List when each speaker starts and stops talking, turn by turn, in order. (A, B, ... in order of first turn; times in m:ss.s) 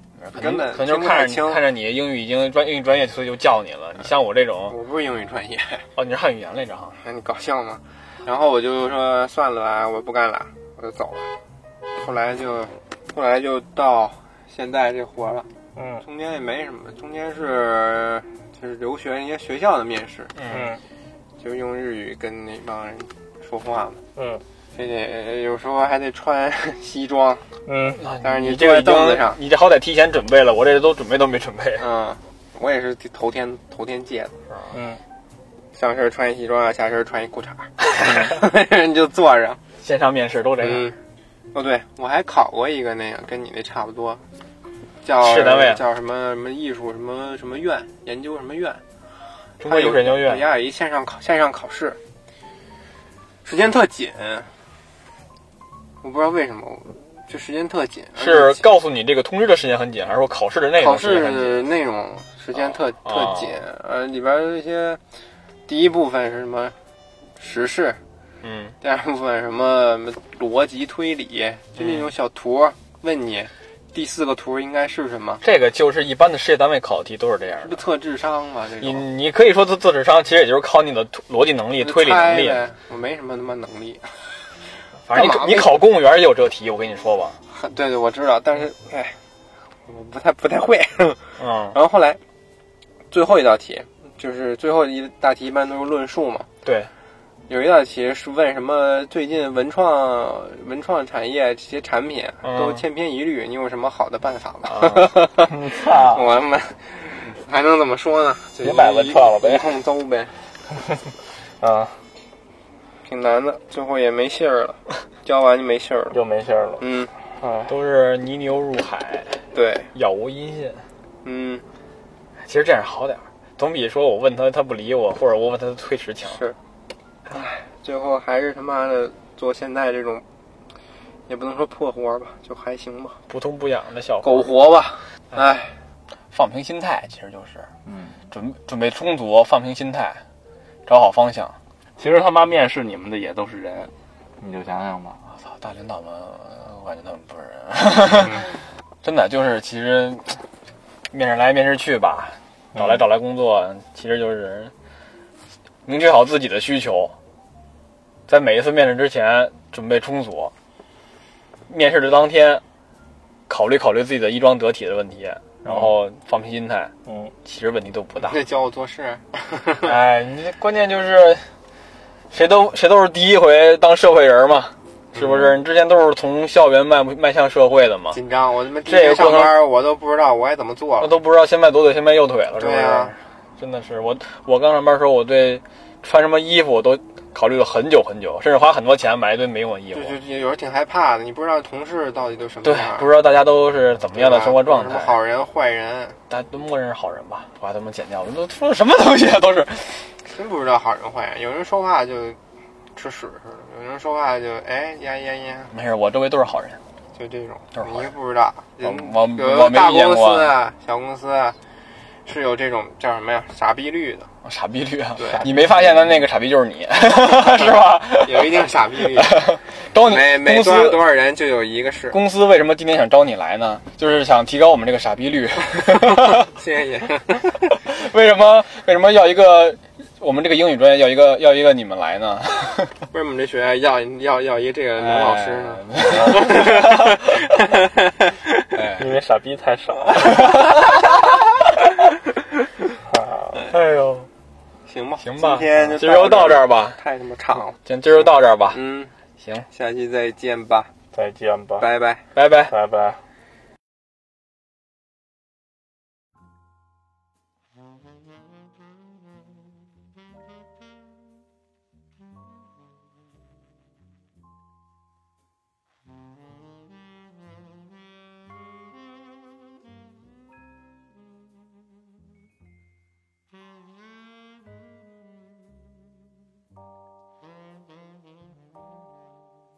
0:00.2-0:04.8 A
0:00.4-0:01.6 B
0:04.7-0:05.9 B
0:06.0-0:07.0 A
0:07.0-0:11.3 B
0:12.0-0:15.5 B
0:15.8-0:16.0 C
0:16.0-0:20.3 B
0:20.4-0:20.7 A
0:20.5-0:20.8 C
0:21.4-0:24.0 B
0:24.2-0:24.4 C
0:24.8-0:27.4 B
0:27.7-0:28.0 C
0:28.0-0:31.9 A
0:28.2-0:29.4 B
0:31.8-0:34.4 B
0:34.7-0:35.0 C
0:35.7-0:39.6 B
0:39.8-0:40.9 A
0:40.6-0:41.0 B
0:41.5-0:44.2 B
0:45.0-0:48.8 B
0:45.2-0:45.8 A
0:49.6-0:50.5 A
0:49.6-0:52.0 B
0:53.4-0:54.5 B
0:56.0-0:58.7 B
0:58.2-1:01.6 A
1:00.8-1:05.0 B
1:02.6-1:03.6 A
1:05.7-1:06.8 B
1:07.4-1:08.0 B
1:08.4-1:08.8 A
1:08.8-1:15.4 B
1:11.8-1:12.1 A
1:15.4-1:17.8 A
1:17.6-1:19.1 B
1:18.8-1:22.6 A
1:21.8-1:24.2 B
1:25.0-1:27.4 A
1:25.1-1:25.8 B
1:27.5-1:29.2 B
1:29.9-1:32.2 B
1:31.4-1:31.8 A
1:33.1-1:36.5 B
1:36.6-1:36.9 A
1:37.5-1:50.3 B
1:42.4-1:42.8 A
1:44.7-1:45.1 A
1:45.5-1:46.3 C
1:48.6-1:49.8 C
1:51.6-1:52.0 C
1:53.1-1:56.2 B
1:56.1-1:56.8 C
1:56.8-1:57.1 B
1:57.4-1:57.7 C
1:57.7-2:00.9 A
1:59.5-1:59.9 B
2:01.2-2:01.6 B
2:02.4-2:06.4 A
2:07.3-2:10.2 B
2:11.3-2:13.2 B
2:13.3-2:14.5 A
2:14.2-2:15.8 B
2:16.3-2:17.7 A
2:17.9-2:18.2 C
2:18.3-2:20.2 A
2:20.9-2:21.6 A
2:22.0-2:25.2 C
2:25.3-2:30.4 A
2:31.1-2:34.7 A
2:32.8-2:33.0 C
2:35.9-2:37.2 A
2:38.3-2:40.5 A
2:41.7-2:42.6 A
2:43.5-2:46.9 A
2:47.1-2:47.3 C
2:47.4-2:48.4 A
2:48.2-2:50.0 B
2:49.8-2:51.5 A
2:52.3-2:58.2 A
2:55.1-2:55.5 B
2:58.1-3:01.1 B
2:58.9-2:59.6 A
3:01.0-3:10.2 A
3:02.6-3:03.2 B
3:09.9-3:13.1 B
3:12.6-3:15.2 A
3:14.1-3:16.2 B
3:16.3-3:20.1 A
3:20.2-3:22.4 B
3:23.0-3:25.7 B
3:25.7-3:26.8 A
3:27.2-3:31.6 B
3:27.8-3:28.1 A
3:28.8-3:30.5 A
3:32.3-3:34.3 B
3:34.4-3:41.0 A
3:35.2-3:35.5 B
3:37.5-3:42.2 B
3:42.1-3:46.5 A
3:45.9-3:47.7 B
3:47.7-3:53.0 A
3:53.1-3:58.3 B
3:55.0-3:57.3 A
3:58.7-3:59.2 A
3:59.0-4:00.7 C
4:00.2-4:01.1 A
4:03.0-4:03.6 C
4:03.6-4:04.3 A
4:04.9-4:09.1 B
4:05.2-4:07.0 A
4:07.9-4:08.8 A
4:09.4-4:09.7 A
4:09.7-4:10.9 B
4:11.1-4:11.9 C
4:11.8-4:12.2 B
4:12.4-4:12.7 A
4:12.7-4:13.2 C